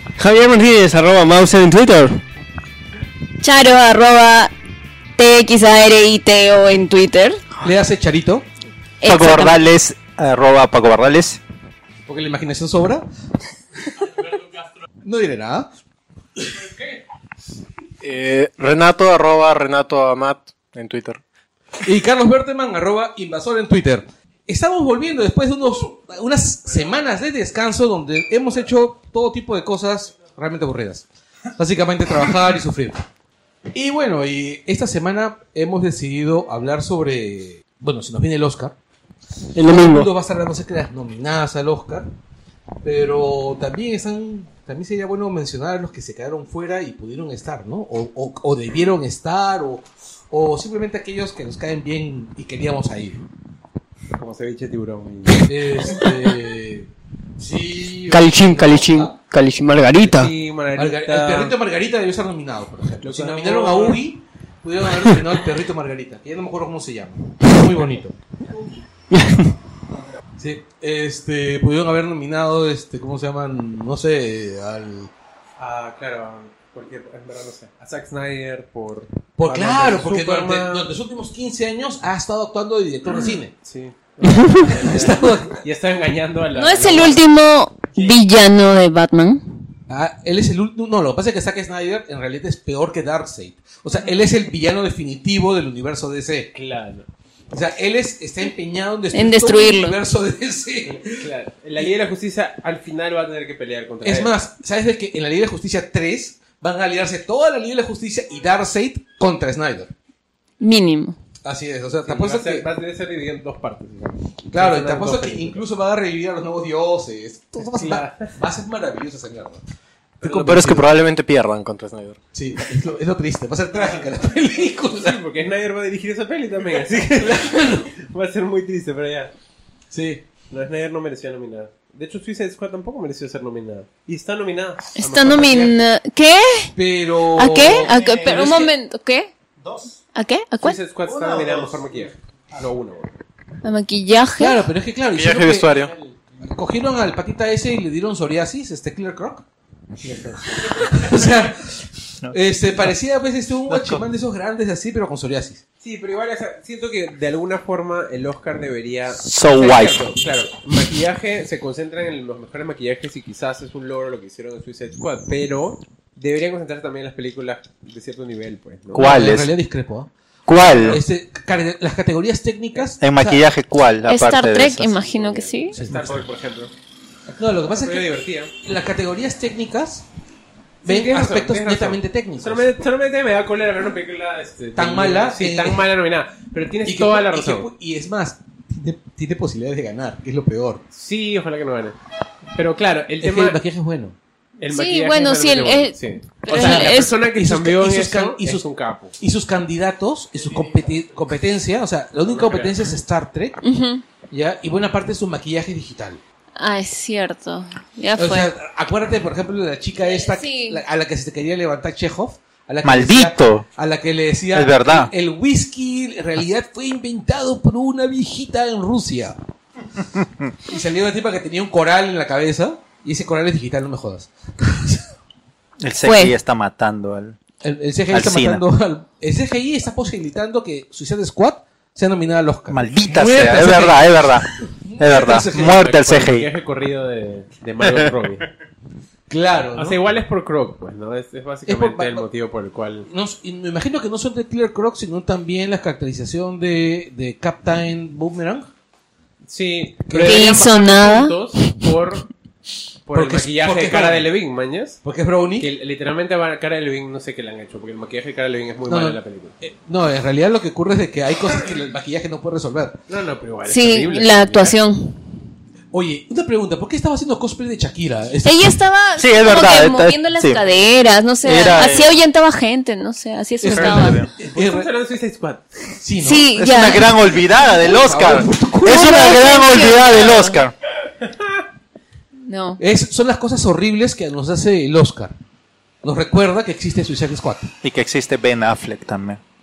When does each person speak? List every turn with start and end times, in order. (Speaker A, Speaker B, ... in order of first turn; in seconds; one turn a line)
Speaker A: 0.2-2.2
Speaker B: 3.4-4.5
Speaker B: 5.2-7.4
Speaker C: 7.6-8.5
Speaker B: 9.0-9.6
Speaker D: 9.0-11.4
Speaker C: 12.1-13.0
Speaker C: 15.0-15.7
Speaker C: 16.4-17.0
Speaker E: 18.0-21.2
Speaker C: 21.8-33.0
Speaker C: 33.7-38.8
Speaker A: 39.5-40.1
Speaker C: 39.6-42.1
Speaker C: 42.8-53.2
Speaker F: 54.1-55.5
Speaker C: 55.4-59.1
Speaker A: 58.1-60.3
Speaker F: 60.0-61.5
Speaker C: 60.8-68.2
Speaker F: 63.0-64.0
Speaker A: 69.1-69.5
Speaker C: 70.4-75.1
Speaker F: 75.6-80.9
Speaker C: 79.4-83.5
Speaker F: 83.6-87.2
Speaker C: 84.4-85.6
Speaker B: 86.5-89.4
Speaker C: 89.9-96.5
Speaker F: 96.5-97.1
Speaker C: 97.5-101.3
Speaker B: 99.1-100.0
Speaker F: 100.9-104.3
Speaker C: 104.0-109.9
Speaker B: 110.6-111.2
Speaker C: 111.4-112.7
Speaker F: 112.0-115.6
Speaker C: 114.5-119.6
Speaker F: 117.6-118.3
Speaker C: 120.2-120.9
Speaker E: 120.2-122.2
Speaker C: 122.3-125.2
Speaker F: 125.0-129.3
Speaker C: 127.2-127.9
Speaker C: 129.9-130.2
Speaker F: 130.5-135.8
Speaker B: 135.0-136.7
Speaker C: 136.8-138.7
Speaker B: 137.3-139.3
Speaker D: 137.8-138.5
Speaker D: 139.6-139.9
Speaker B: 140.1-140.8
Speaker F: 140.6-143.1
Speaker D: 141.0-141.8
Speaker B: 143.6-144.7
Speaker C: 144.3-149.4
Speaker E: 145.1-145.9
Speaker C: 150.6-151.7
Speaker C: 152.3-155.6
Speaker D: 153.7-154.1
Speaker F: 155.8-169.3
Speaker D: 159.2-160.0
Speaker D: 168.9-169.5
Speaker C: 168.9-170.1
Speaker D: 170.5-171.0
Speaker F: 170.6-171.0
Speaker C: 170.7-173.5
Speaker D: 173.0-175.0
Speaker B: 174.1-175.8
Speaker F: 175.0-176.7
Speaker C: 175.7-176.2
Speaker C: 177.2-180.1
Speaker F: 177.8-178.5
Speaker C: 180.8-182.6
Speaker F: 180.8-187.7
Speaker C: 184.8-185.8
Speaker C: 186.8-190.8
Speaker F: 190.9-191.9
Speaker F: 192.5-193.6
Speaker C: 193.2-194.2
Speaker F: 194.6-199.2
Speaker B: 194.7-197.2
Speaker C: 196.5-198.7
Speaker C: 199.2-203.6
Speaker F: 202.2-202.9
Speaker B: 203.6-204.0
Speaker C: 204.3-206.2
Speaker B: 206.6-208.5
Speaker C: 208.2-219.4
Speaker B: 210.0-210.8
Speaker D: 212.8-213.7
Speaker D: 214.5-215.1
Speaker C: 220.7-225.1
Speaker D: 225.8-227.4
Speaker B: 226.0-226.3
Speaker C: 227.6-235.8
Speaker D: 228.1-228.6
Speaker D: 232.7-234.5
Speaker D: 235.0-236.5
Speaker F: 235.5-238.5
Speaker C: 239.3-240.0
Speaker F: 239.8-243.1
Speaker C: 241.7-242.3
Speaker C: 243.1-248.7
Speaker F: 249.5-252.3
Speaker C: 250.1-250.5
Speaker B: 250.2-251.3
Speaker F: 253.1-255.0
Speaker C: 253.1-254.3
Speaker C: 255.0-255.7
Speaker F: 255.6-259.5
Speaker C: 258.9-263.0
Speaker F: 263.1-264.8
Speaker B: 263.7-265.1
Speaker C: 265.9-268.7
Speaker B: 268.4-274.2
Speaker D: 269.2-270.6
Speaker D: 271.4-272.1
Speaker C: 273.6-274.9
Speaker F: 273.8-275.7
Speaker D: 273.9-274.2
Speaker C: 276.0-276.5
Speaker B: 276.2-277.2
Speaker D: 276.6-280.7
Speaker C: 277.3-279.4
Speaker B: 278.8-280.6
Speaker F: 281.2-281.6
Speaker B: 282.4-282.8
Speaker C: 282.8-285.3
Speaker C: 286.0-287.7
Speaker D: 287.8-289.4